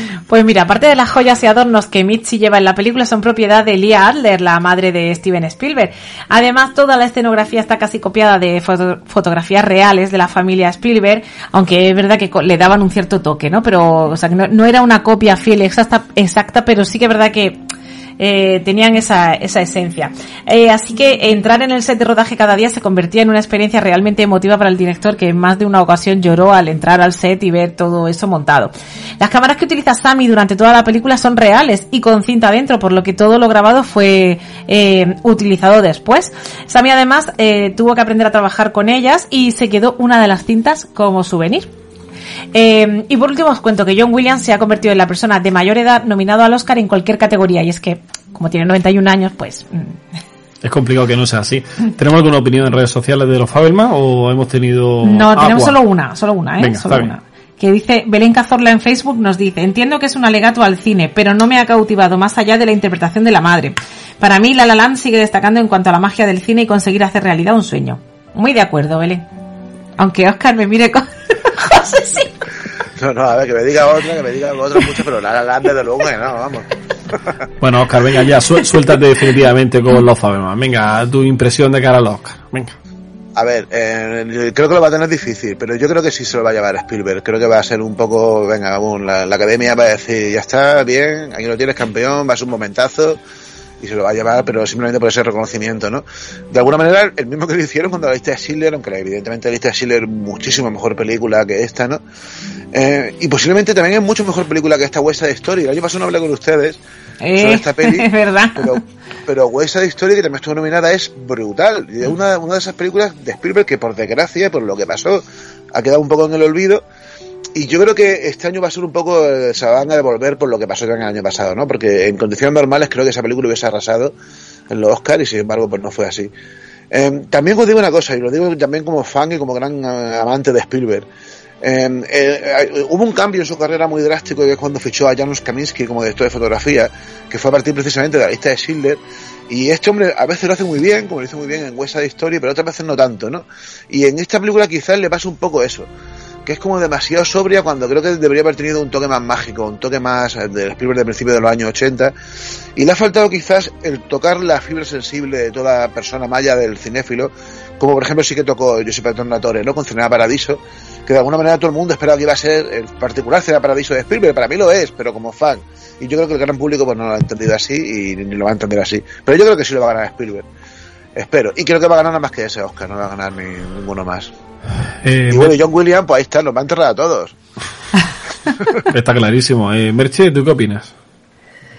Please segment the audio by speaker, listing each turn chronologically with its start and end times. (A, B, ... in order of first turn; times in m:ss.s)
0:00.3-0:17.6 A
0:18.2-0:41.7 A
0:42.5-0:50.0 A
0:50.6-0:55.8 B
0:55.0-1:09.3 A
0:56.6-0:57.1 B
1:10.0-1:12.3 A
1:13.0-1:16.6 C
1:17.6-1:22.7 B
1:23.4-1:33.2 C
1:33.8-1:42.0 C
1:42.7-1:46.8 C
1:47.2-1:48.8 A
1:47.4-1:55.2 C
1:55.7-1:56.8 C
1:57.6-2:04.1 C
2:04.7-2:06.3 C
2:06.9-2:11.1 C
2:11.6-2:25.9 C
2:26.5-2:32.1 C
2:32.8-2:50.5 C
2:51.2-2:54.3 C
2:55.0-2:55.6 B
2:55.3-2:57.4 C
2:58.8-3:00.9 B